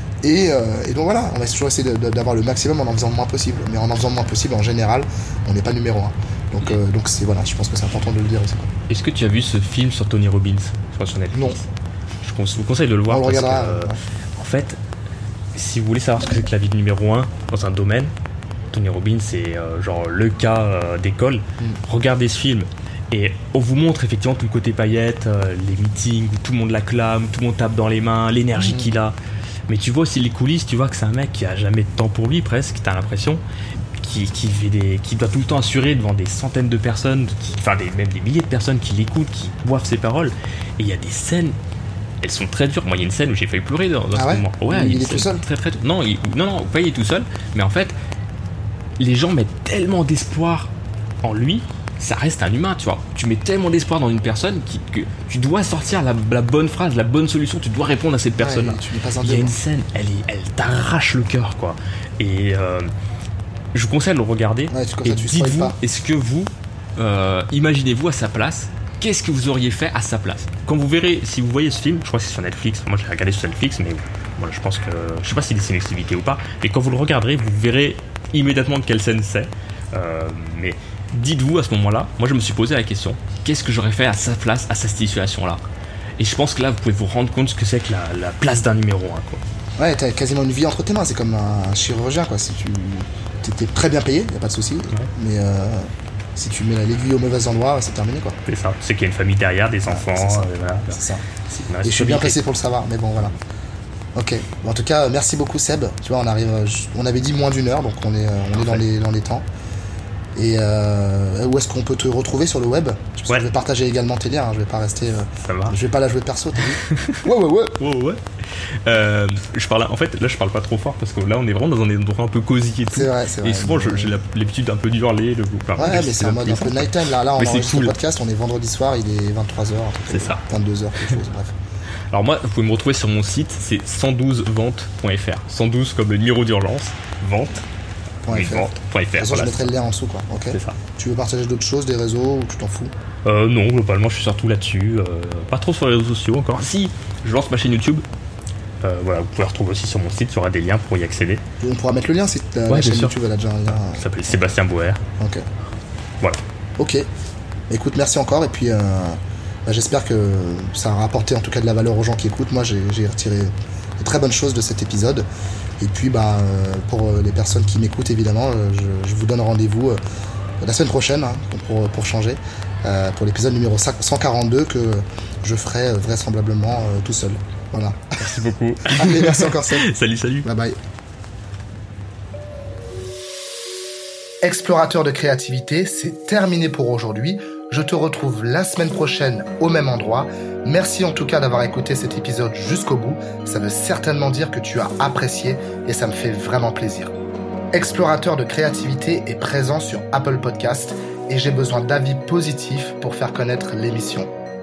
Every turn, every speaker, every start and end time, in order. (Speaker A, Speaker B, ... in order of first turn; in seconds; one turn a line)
Speaker A: 0.2-8.7
Speaker B: 8.9-11.7
Speaker B: 12.2-14.8
Speaker A: 13.1-14.0
Speaker B: 15.6-18.1
Speaker B: 18.7-29.2
Speaker A: 28.6-28.9
Speaker B: 29.7-33.4
Speaker B: 34.0-41.5
Speaker B: 42.2-48.0
Speaker A: 44.1-45.4
Speaker B: 49.0-50.7
Speaker B: 51.2-62.9
Speaker A: 58.4-59.6
Speaker B: 63.7-85.6
Speaker A: 64.7-65.8
Speaker B: 86.2-89.4
Speaker A: 89.8-98.4
Speaker B: 98.5-102.4
Speaker A: 99.9-101.2
Speaker A: 101.8-103.3
Speaker A: 104.2-109.4
Speaker B: 108.5-108.8
Speaker A: 110.3-117.8
Speaker B: 115.4-115.8
Speaker B: 116.7-118.2
Speaker B: 118.8-128.0
Speaker A: 122.9-124.2
Speaker A: 125.8-131.6
Speaker B: 130.1-130.4
Speaker B: 132.1-137.7
Speaker A: 138.2-142.9
Speaker B: 138.3-139.7
Speaker B: 140.5-140.8
Speaker B: 143.2-148.1
Speaker B: 148.8-151.4
Speaker A: 151.6-154.0
Speaker B: 152.7-153.2
Speaker B: 153.7-155.0
Speaker A: 155.2-155.4
Speaker A: 156.8-157.1
Speaker A: 157.7-165.3
Speaker A: 165.8-170.0
Speaker A: 170.6-178.2
Speaker B: 178.2-180.5
Speaker A: 178.9-179.9
Speaker A: 180.4-180.8
Speaker A: 184.4-197.1
Speaker A: 197.7-204.3